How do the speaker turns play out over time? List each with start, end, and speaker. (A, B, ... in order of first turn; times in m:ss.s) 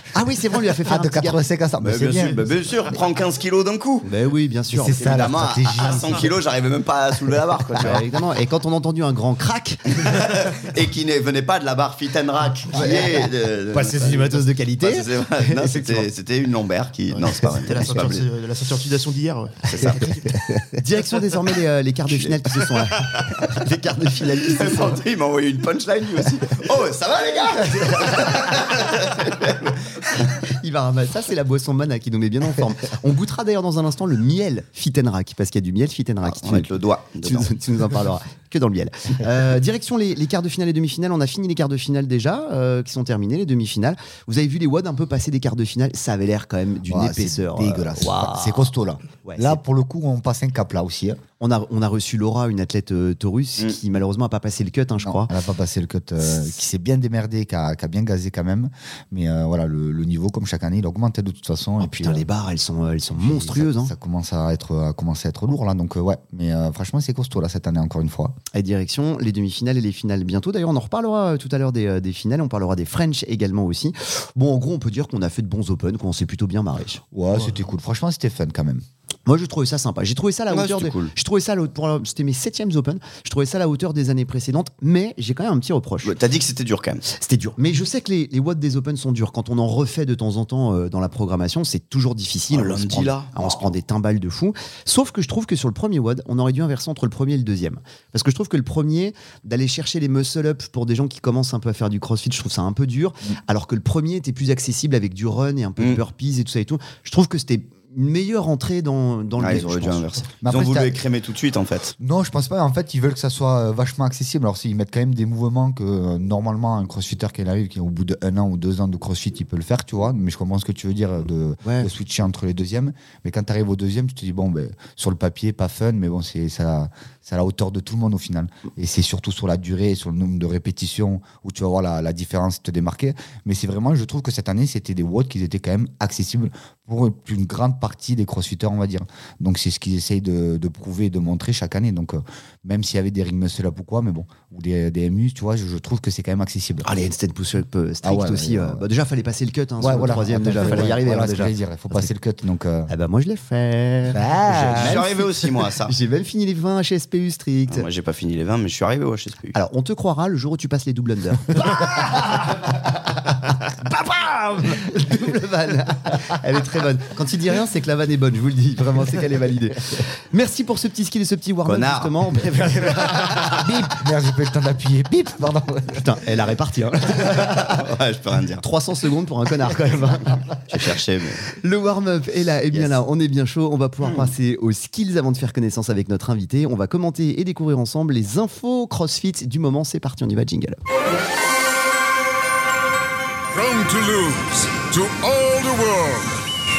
0:00.1-0:01.4 A
0:00.8-0:02.5 B
0:01.8-0:04.1 C
0:04.0-0:05.0 A
0:04.7-0:06.3 B
0:04.8-0:08.0 C
0:07.8-0:10.0 A
0:10.0-0:18.2 C
0:12.7-0:16.1 A
0:17.1-0:20.4 D
0:19.7-0:20.1 C
0:20.8-0:25.0 A
0:22.1-0:23.4 C
0:24.4-0:30.3 C
0:30.4-0:48.7 A
0:36.2-0:37.5 C
0:46.9-0:51.2 B
0:49.2-0:49.6 A
0:51.4-0:55.3 A
0:55.0-1:02.3 B
1:01.8-1:03.9 A
1:03.2-1:08.4 B
1:08.5-1:17.0 A
1:17.1-1:18.8 B
1:17.3-1:17.6 D
1:19.2-1:26.1 A
1:20.5-1:21.1 C
1:26.0-1:27.0 C
1:27.1-1:50.0 A
1:32.5-1:33.6 C
1:49.4-1:51.9 C
1:50.4-1:51.0 B
1:52.0-2:26.9 B
2:01.6-2:01.9 A
2:26.8-2:32.0 A
2:28.0-2:28.8 B
2:29.8-2:32.9 B
2:32.9-2:37.8 A
2:34.1-2:35.0 B
2:34.6-2:35.9 C
2:37.7-2:39.5 C
2:39.5-2:42.9 A
2:43.6-2:53.7 A
2:51.6-2:52.2 C
2:53.3-2:56.2 B
2:55.9-2:57.9 A
2:57.1-2:58.6 C
2:58.6-3:00.7 A
3:00.7-3:01.4 C
3:01.5-3:10.8 A
3:02.7-3:03.0 C
3:04.0-3:04.3 C
3:13.5-3:16.4 E